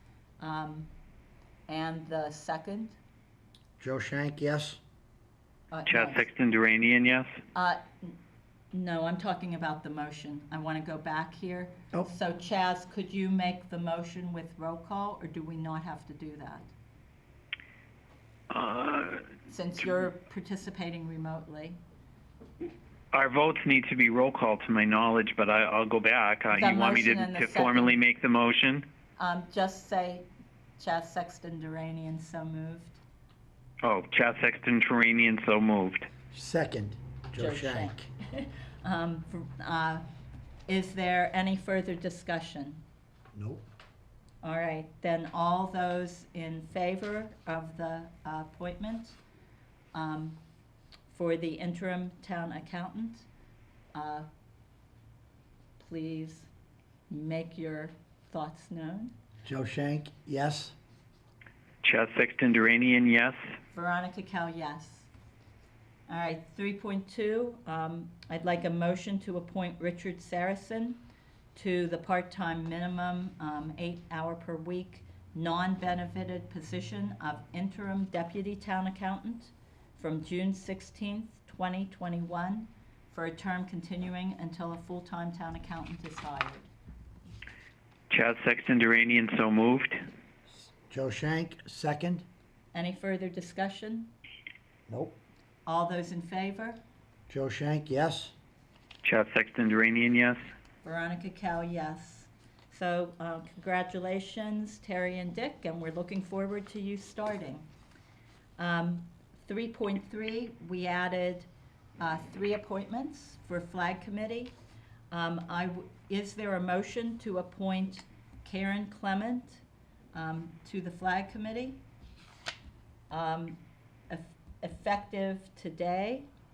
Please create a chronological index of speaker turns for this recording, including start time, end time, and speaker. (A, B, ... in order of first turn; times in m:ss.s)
0:00.4-0:00.9 A
0:01.7-0:03.0 A
0:03.8-0:04.8 B
0:05.7-0:06.2 A
0:05.9-0:07.3 C
0:07.5-0:08.2 A
0:08.7-0:16.7 A
0:18.5-0:19.3 C
0:19.5-0:21.8 A
0:23.1-0:28.8 C
0:26.5-0:28.0 A
0:29.2-0:30.3 A
0:30.8-0:33.0 A
0:33.8-0:36.1 C
0:36.3-0:38.1 B
0:37.4-0:40.0 A
0:40.7-0:42.8 A
0:43.3-0:43.6 B
0:44.4-0:49.2 A
0:49.9-0:50.4 A
0:51.1-0:53.3 A
0:53.9-0:54.3 A
0:55.8-0:56.5 A
0:57.1-0:59.1 A
0:59.4-1:00.7 B
1:01.8-1:03.4 C
1:03.7-1:05.1 A
1:06.1-1:11.0 A
1:11.5-1:26.7 A
1:28.1-1:30.0 C
1:30.6-1:32.2 B
1:32.7-1:34.1 A
1:34.9-1:35.2 B
1:35.6-1:36.8 A
1:37.3-1:38.3 B
1:39.0-1:40.4 C
1:40.8-1:47.7 A
1:48.6-1:51.5 A
1:52.0-1:54.5 A
1:55.1-2:01.8 A
2:03.1-2:06.3 A